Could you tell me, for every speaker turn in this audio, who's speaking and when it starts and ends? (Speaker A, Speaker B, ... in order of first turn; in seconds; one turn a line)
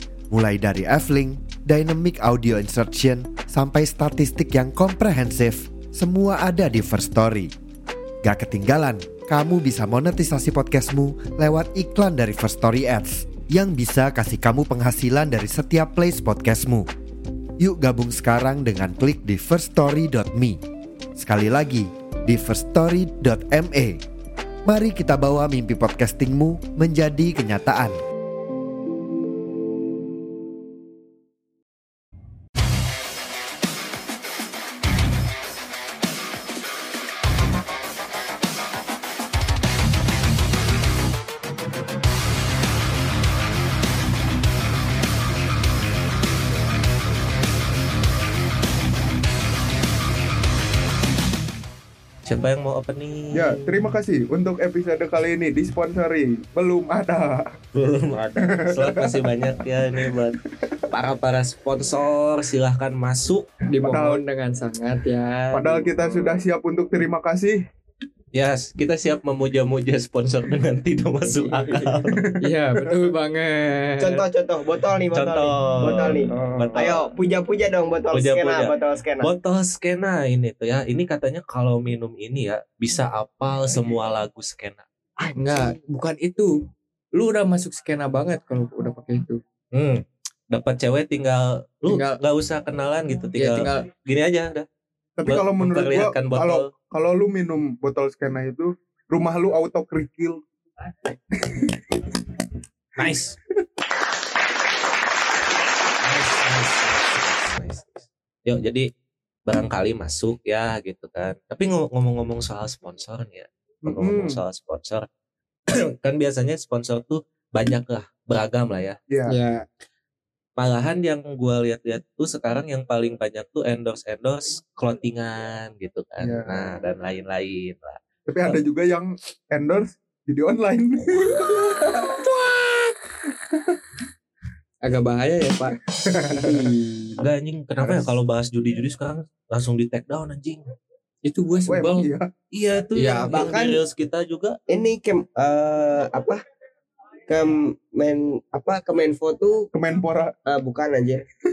Speaker A: 0.3-7.5
Speaker A: 8.2-16.9
Speaker A: 17.6-20.6
Speaker A: 21.1-24.0
Speaker A: 24.6-27.9
Speaker B: 52.3-53.7
Speaker C: 53.3-57.5
Speaker B: 57.7-60.4
Speaker C: 58.4-60.3
Speaker B: 60.9-63.5
Speaker D: 63.7-65.9
Speaker C: 63.8-64.2
Speaker C: 65.5-67.6
Speaker B: 68.3-72.2
Speaker E: 71.3-72.0
Speaker C: 72.1-73.0
Speaker D: 72.4-74.2
Speaker E: 74.0-79.3
Speaker B: 75.1-77.1
Speaker C: 76.3-76.8
Speaker B: 78.1-84.8
Speaker E: 85.2-85.8
Speaker D: 85.3-86.6
Speaker D: 87.1-89.4
Speaker B: 89.7-94.7
Speaker D: 91.9-92.2
Speaker D: 93.3-93.9
Speaker C: 95.2-100.4
Speaker B: 95.2-96.7
Speaker C: 101.3-102.2
Speaker B: 103.0-103.3
Speaker B: 106.0-108.9
Speaker B: 109.5-115.1
Speaker C: 113.8-114.4
Speaker B: 115.7-119.0
Speaker C: 119.1-119.3
Speaker D: 119.3-119.7
Speaker B: 120.6-128.5
Speaker C: 126.2-126.8
Speaker C: 128.3-132.3
Speaker D: 134.8-135.8
Speaker C: 136.1-136.7
Speaker E: 136.3-137.2
Speaker B: 137.2-140.6
Speaker D: 141.2-142.1
Speaker C: 141.7-142.3
Speaker B: 142.5-144.6
Speaker D: 142.9-143.5
Speaker E: 143.3-143.8
Speaker E: 144.7-146.4
Speaker E: 147.3-149.7
Speaker C: 149.7-150.3
Speaker E: 150.4-151.2